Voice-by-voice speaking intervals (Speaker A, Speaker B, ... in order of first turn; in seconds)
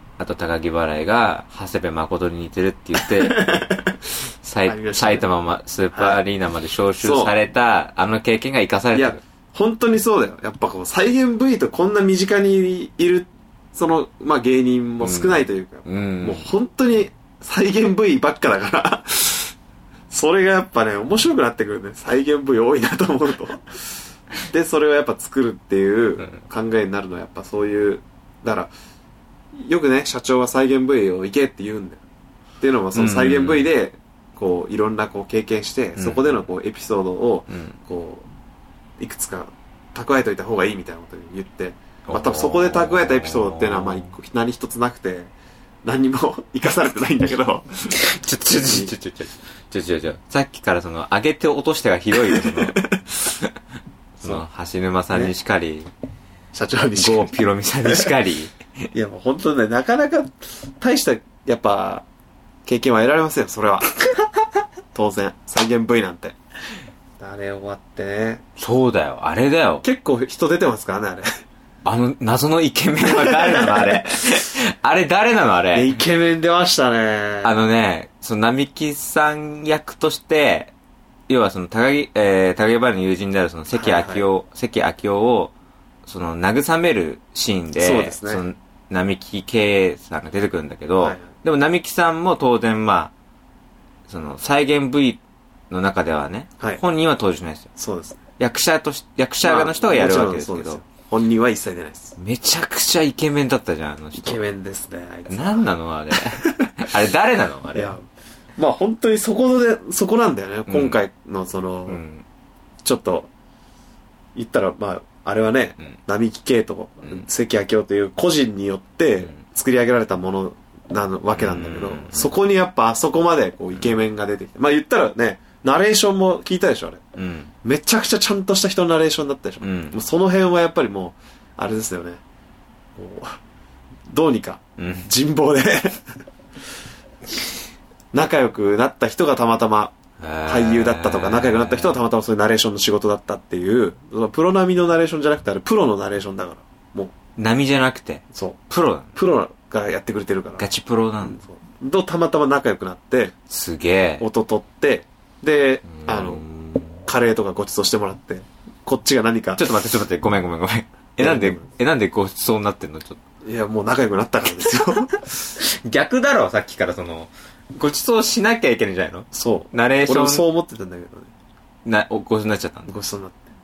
Speaker A: 0.2-3.6, 4.4-9.2, 15.0-16.5, 32.9-33.7, 36.0-36.3, 37.5-37.8, 42.1-44.1, 47.9-53.5, 54.2-55.9, 57.0-58.6, 68.6-69.8, 71.8-76.0, 77.4-80.7, 81.3-85.5, 86.0-93.1, 94.1-97.7, 98.4-100.8, 102.2-104.4, 105.3-107.9, 110.7-111.0, 111.9-112.2, 121.3-122.3, 127.2-127.5, 129.6-130.0, 134.8-135.1, 140.2-142.0, 147.4-149.1, 150.6-151.4, 153.5-154.3, 155.9-157.0, 159.6-163.2, 165.6-170.4, 171.8-172.9
Speaker B: 3.0-4.0, 4.7-5.3, 5.9-6.2, 7.0-7.3, 8.9-19.5, 20.1-23.8, 24.5-28.7, 29.5-32.0, 32.6-38.3, 39.0-45.3, 45.8-47.9, 48.6-48.9, 52.2-53.0, 56.5-57.3, 58.9-62.0, 62.6-63.9, 64.9-66.4, 67.2-68.4, 69.8-71.3, 73.0-74.0, 75.7-77.6, 83.7-84.2, 87.8-88.4, 91.0-91.2, 97.8-98.2, 99.4-102.1, 104.2-105.7, 106.2-106.7, 107.7-108.0, 108.6-112.0, 112.8-113.3, 114.3-127.0, 127.6-132.2, 132.9-133.4, 134.1-136.1, 138.1-139.9, 140.5-147.1, 148.3-148.6, 149.1-150.7, 151.2-153.3, 154.2-156.4, 157.0-159.6, 161.2-161.6, 163.4-165.2, 169.3-171.3, 172.9-173.4